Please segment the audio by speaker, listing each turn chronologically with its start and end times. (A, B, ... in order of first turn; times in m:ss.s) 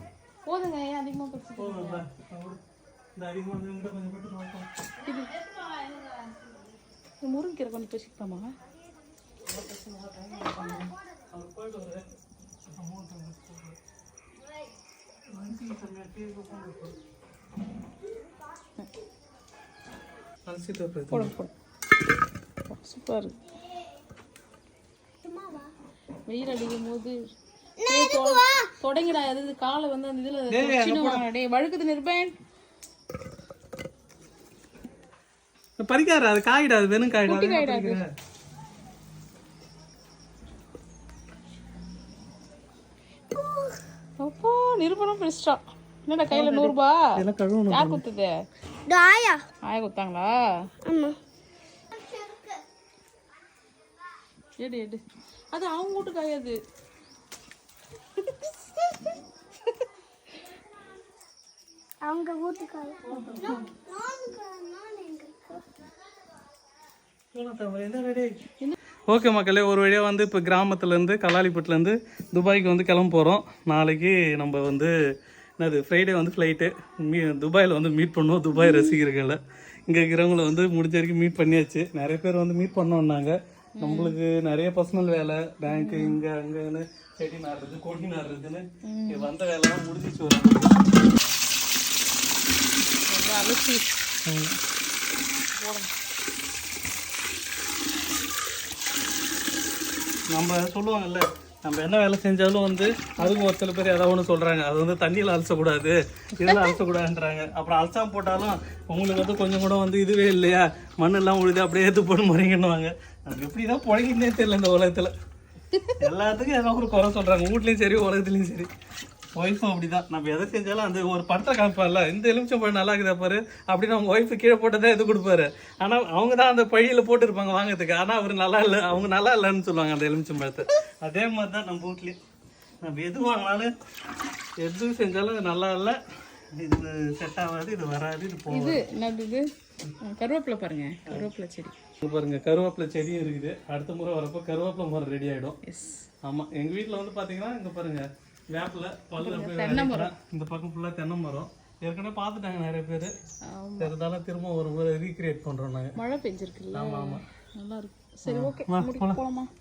0:00.5-0:02.0 A
0:01.6-0:02.6 B
0:03.2-0:04.7 B
0:05.0-0:05.4 A
0:07.2-0:08.5 A
0:09.5-0:12.1 B
0:12.7-0:13.8 B
0:15.2-0:17.0 B
0:20.4-0:21.3 B
0:21.1-0:21.5 A
0:22.7-0:23.3 A
0:25.2-0:25.7 C
0:26.3-0:27.2 A
0:27.8-0:28.7 C
0:27.8-0:32.3 A
0:30.5-0:31.3 B
0:35.8-0:38.1 B
0:37.2-0:38.0 A
0:43.3-0:43.8 C
0:44.2-0:47.1 A
0:46.3-0:48.0 B
0:47.7-0:48.4 A
0:48.8-0:49.4 C
0:49.6-0:50.4 A
0:50.8-0:51.2 C
0:51.9-0:52.6 C
0:54.6-0:55.0 A
0:55.5-0:56.6 A
1:02.0-1:05.6 C
1:03.0-1:03.7 B
1:07.3-1:08.4 B
1:09.1-1:14.9 B
1:15.6-1:30.8 B
1:18.5-1:19.0 A
1:23.8-1:24.2 A
1:25.7-1:26.2 A
1:28.8-1:29.3 A
1:32.9-1:33.9 A
1:34.2-1:34.6 B
1:35.5-1:35.9 A
1:40.3-1:55.1 B
1:56.0-1:58.7 B
1:59.3-2:12.2 B
2:12.8-2:13.7 B
2:14.6-2:18.8 B
2:18.5-2:19.5 A
2:20.0-2:21.8 A
2:22.0-2:25.6 B
2:25.6-2:26.0 A
2:26.2-2:33.1 B
2:29.2-2:30.1 A
2:33.5-2:33.9 A
2:33.8-2:36.0 B
2:36.0-2:39.5 A
2:36.7-2:37.2 B
2:38.3-2:39.2 B